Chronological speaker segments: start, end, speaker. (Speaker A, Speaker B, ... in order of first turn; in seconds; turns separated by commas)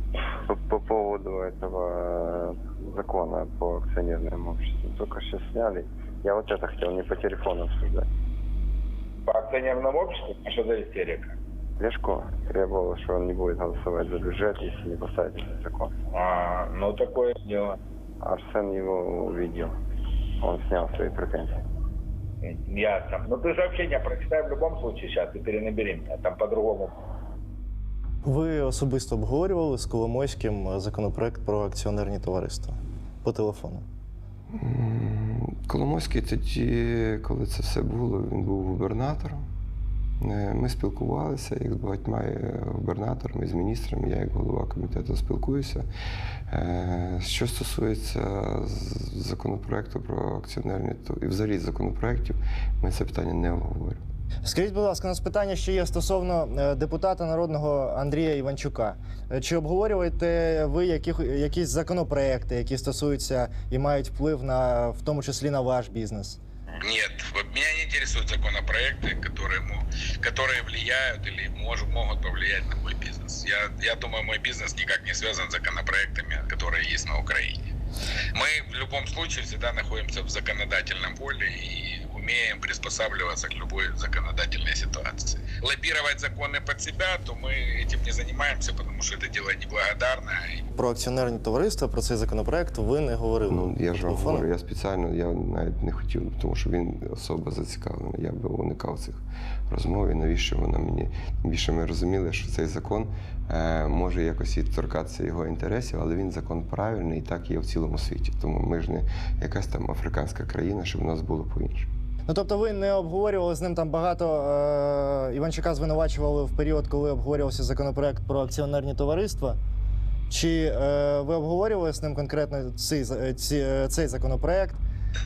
Speaker A: 0.4-8.1, Speaker B: 9.2-11.3, Speaker A: 11.8-15.9, Speaker B: 16.1-17.8, Speaker A: 18.2-19.7, Speaker A: 20.4-21.6, Speaker B: 22.4-26.9, Speaker C: 28.2-33.8, Speaker D: 34.5-39.5, Speaker D: 40.2-45.9, Speaker D: 46.5-54.0, Speaker C: 54.4-66.4, Speaker E: 66.8-77.7, Speaker E: 78.3-90.7, Speaker C: 90.7-94.4, Speaker D: 93.5-111.9, Speaker C: 112.3-119.6, Speaker C: 120.3-124.8